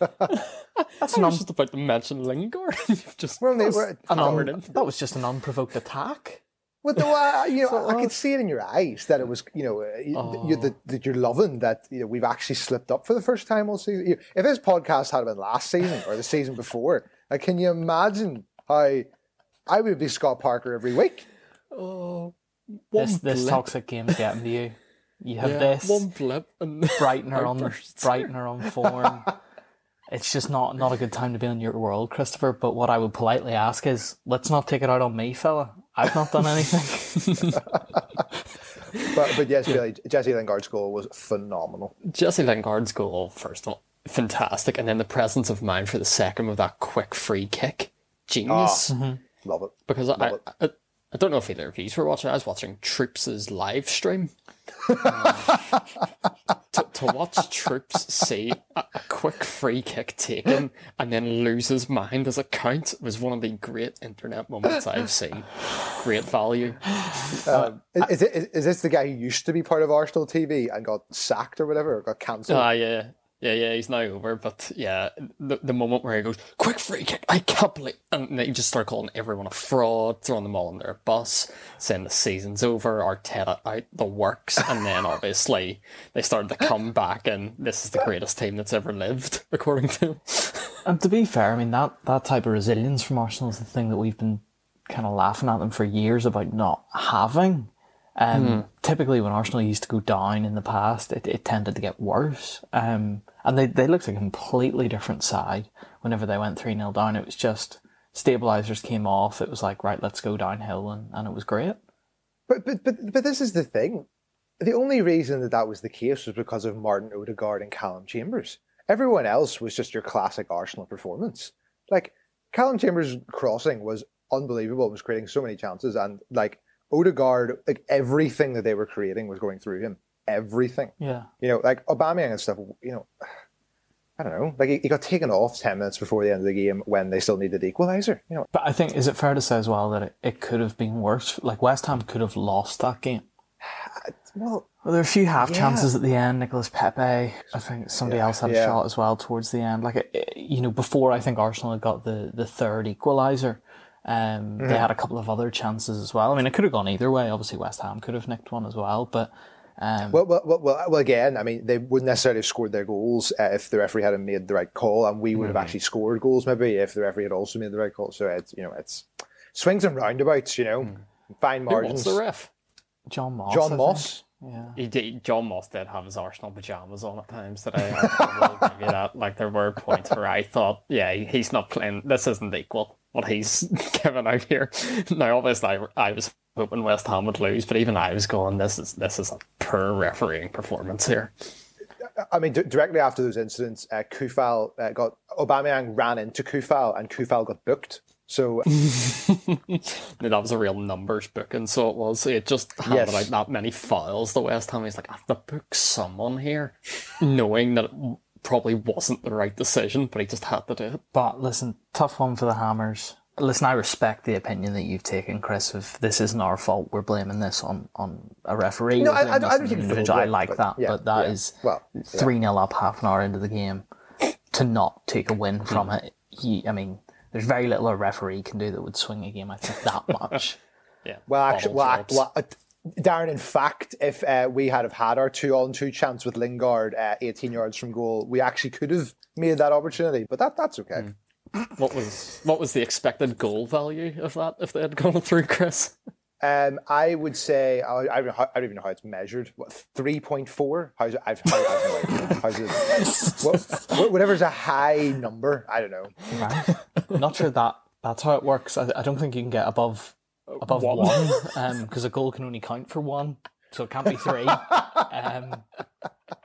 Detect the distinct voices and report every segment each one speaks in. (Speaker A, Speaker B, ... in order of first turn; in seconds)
Speaker A: 0.3-4.9, 10.1-10.7, 21.7-22.3, 22.9-23.7, 25.4-29.1, 42.0-48.9, 49.9-54.3, 54.8-55.8, 56.7-67.6, 72.5-90.8, 98.3-98.7, 165.4-165.7, 171.7-172.5, 174.8-191.3, 198.7-211.0, 231.0-232.2, 241.6-245.9, 260.5-261.5
Speaker B: 1.0-1.4, 4.1-6.4, 7.7-8.1, 22.9-26.1, 27.0-29.4, 30.1-37.6, 48.9-49.2, 90.8-111.8, 131.0-131.3, 138.5-143.2, 144.8-160.2, 173.1-174.8, 211.1-230.6, 256.3-265.6
Speaker C: 3.4-4.5, 6.8-19.1, 19.7-21.2, 39.0-41.9, 48.5-48.9, 49.4-50.4, 67.5-72.7, 112.5-114.1, 114.6-133.3, 134.2-138.5, 143.6-144.7, 145.4-145.9, 148.0-148.8, 154.6-154.9, 160.1-172.2, 173.5-174.2, 192.3-198.7, 202.8-203.3, 219.0-222.3, 231.3-241.1, 246.4-256.2